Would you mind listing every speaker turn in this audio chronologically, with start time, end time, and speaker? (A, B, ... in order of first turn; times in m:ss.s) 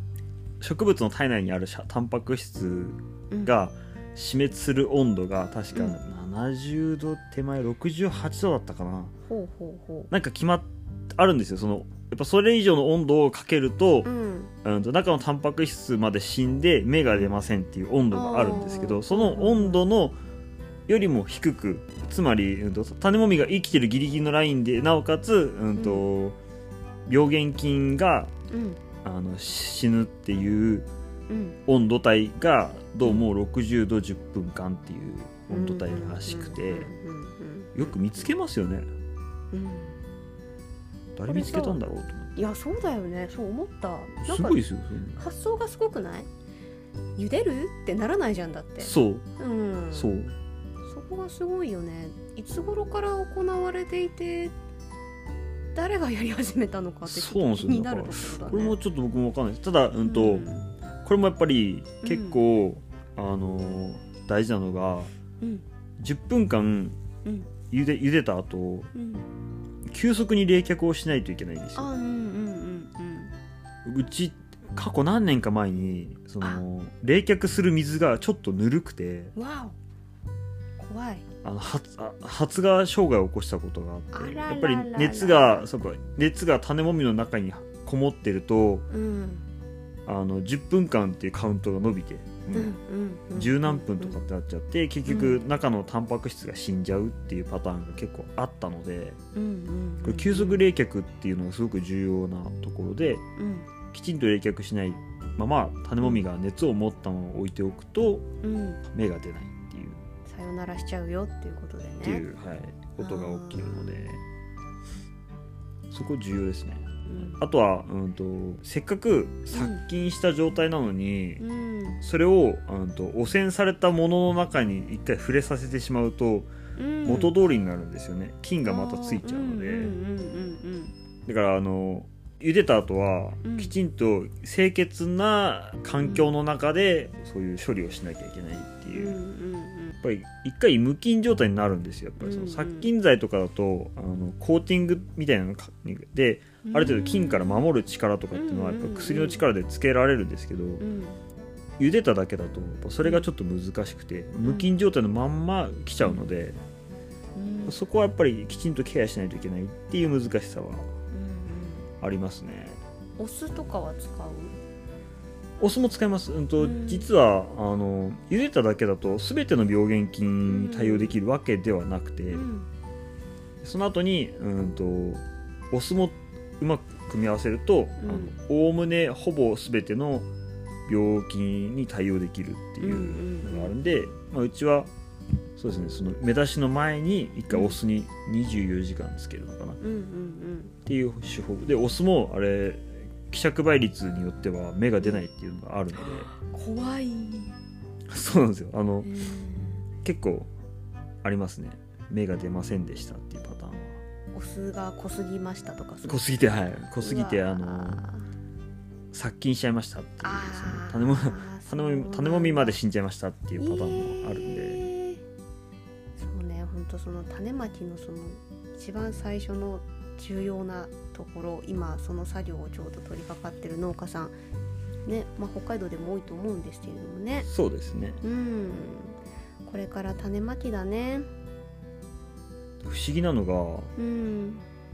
0:00.6-0:09.1 A
0:09.3-0:10.1 B
0:10.1-0:14.1 A
0:14.0-0:14.5 B
0:14.6-0:20.2 A
0:18.1-0:19.8 B
0:20.9-0:26.4 A
0:25.8-0:26.1 B
0:27.1-0:28.3 A
0:28.5-0:28.8 B
0:29.0-0:30.9 A
0:31.3-0:31.6 B
0:31.7-0:36.9 A
0:35.5-0:38.3 B
0:37.8-0:38.9 A
0:39.5-0:40.0 B
0:41.2-0:42.4 A
0:41.3-0:44.6 B
0:44.2-0:45.2 A
0:45.2-0:46.3 B
0:47.2-0:50.2 B
0:48.8-0:49.3 A
0:49.9-0:50.3 A
0:50.8-0:54.5 B
0:55.8-0:58.8 B
0:57.1-1:00.5 A
1:00.0-1:00.7 B
1:01.0-1:05.1 A
1:02.0-1:02.4 B
1:06.0-1:07.0 A
1:07.2-1:07.5 B
1:07.7-1:08.9 A
1:08.9-1:09.2 B
1:09.8-1:11.9 A
1:11.8-1:13.3 B
1:13.8-1:19.3 A
1:19.4-1:19.8 B
1:20.8-1:21.2 B
1:21.4-1:28.8 A
1:24.1-1:25.7 B
1:28.9-1:29.4 B
1:30.1-1:32.8 A
1:32.5-1:34.2 B
1:33.4-1:39.2 A
1:35.1-1:35.4 B
1:39.4-1:40.6 B
1:40.0-1:43.2 A
1:43.4-1:43.7 B
1:43.9-1:48.2 A
1:48.4-1:48.8 B
1:48.9-1:50.0 A
1:50.2-1:52.2 B
1:52.0-1:54.2 A
1:53.0-1:54.1 B
1:55.9-2:01.4 A
1:57.1-1:57.4 B
1:59.5-1:59.8 B
2:01.4-2:02.0 B
2:02.0-2:06.5 A
2:06.8-2:07.3 B
2:07.0-2:09.9 A
2:08.6-2:10.9 B
2:11.2-2:19.2 A
2:13.4-2:13.7 B
2:16.0-2:16.3 B
2:18.9-2:20.0 B
2:20.0-2:30.8 A
2:22.2-2:22.9 B
2:26.6-2:27.6 B
2:28.3-2:29.4 B
2:30.8-2:31.2 B
2:31.8-2:36.6 A
2:33.0-2:33.3 B
2:34.4-2:34.7 B
2:36.0-2:36.2 B
2:37.4-2:37.8 B
2:37.7-2:40.9 A
2:41.1-2:41.9 B
2:42.0-2:42.8 A
2:43.2-2:44.5 B
2:45.6-2:52.4 A
2:46.6-2:47.1 B
2:50.5-2:51.2 B
2:52.3-2:52.7 B
2:53.6-3:00.3 A
2:58.0-2:58.4 B
3:00.9-3:04.9 A
3:02.8-3:03.8 B
3:05.6-3:09.8 A
3:07.5-3:07.8 B
3:09.8-3:10.8 B
3:10.9-3:16.3 A
3:16.0-3:17.6 B
3:18.1-3:19.1 A
3:19.0-3:19.8 B
3:20.0-3:20.5 A
3:21.2-3:24.0 A
3:24.3-3:26.3 B
3:26.0-3:28.0 A
3:27.0-3:28.2 B
3:29.1-3:34.9 A
3:30.2-3:32.8 B
3:33.6-3:35.2 B
3:36.2-3:44.4 B
3:45.0-3:47.5 B
3:47.4-3:48.2 A
3:48.2-3:51.3 B
3:52.8-3:53.9 A
3:54.0-3:54.6 B